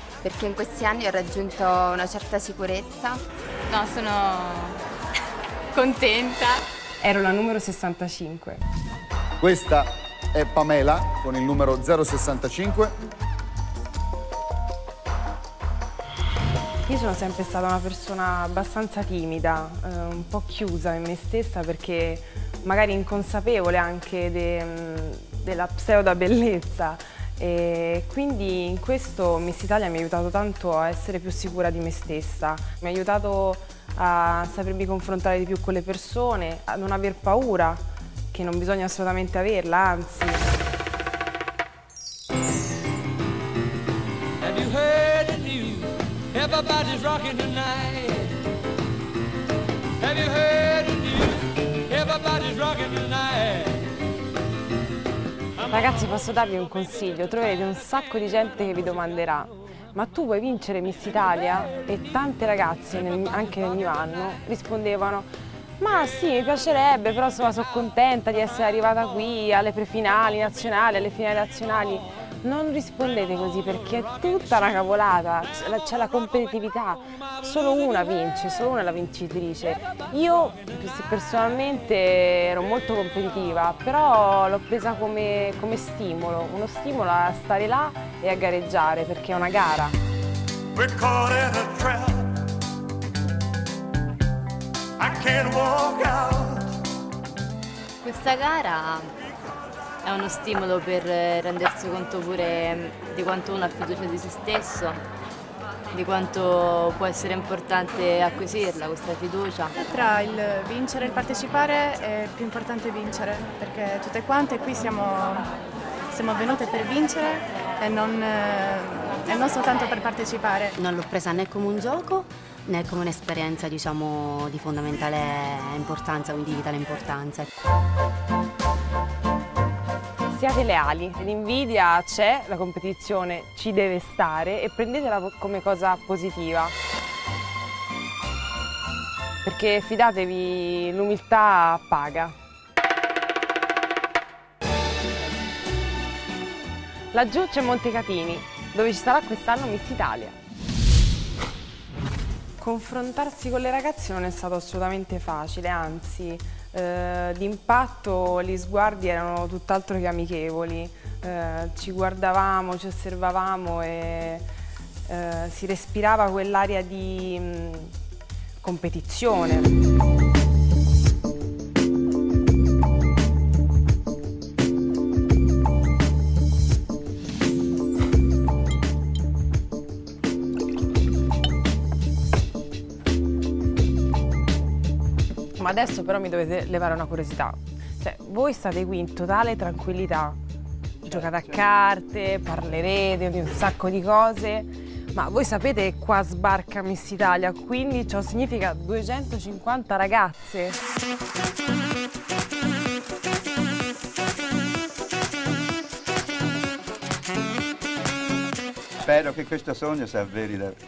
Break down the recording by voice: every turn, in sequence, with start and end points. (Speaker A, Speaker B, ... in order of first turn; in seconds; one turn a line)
Speaker A: 0.2-3.2
Speaker B: 3.7-4.8
Speaker B: 5.7-6.6
Speaker C: 7.0-8.6
Speaker D: 9.4-12.9
Speaker C: 16.9-40.5
Speaker E: 44.6-45.6
Speaker E: 46.4-47.9
Speaker E: 50.1-51.0
Speaker E: 52.0-53.5
Speaker C: 55.7-65.3
Speaker C: 65.8-90.0
Speaker F: 90.8-92.3
Speaker F: 95.0-96.7
Speaker G: 98.0-99.1
Speaker G: 100.0-105.0
Speaker G: 105.9-109.7
Speaker H: 109.8-115.5
Speaker H: 116.1-120.7
Speaker I: 120.8-127.5
Speaker C: 130.3-136.8
Speaker C: 139.4-142.3
Speaker C: 147.1-150.4
Speaker C: 152.6-164.5
Speaker C: 165.1-167.9
Speaker C: 168.6-169.7
Speaker C: 185.6-190.4
Speaker J: 191.1-191.6
Speaker C: 191.1-200.8
Speaker J: 209.0-210.8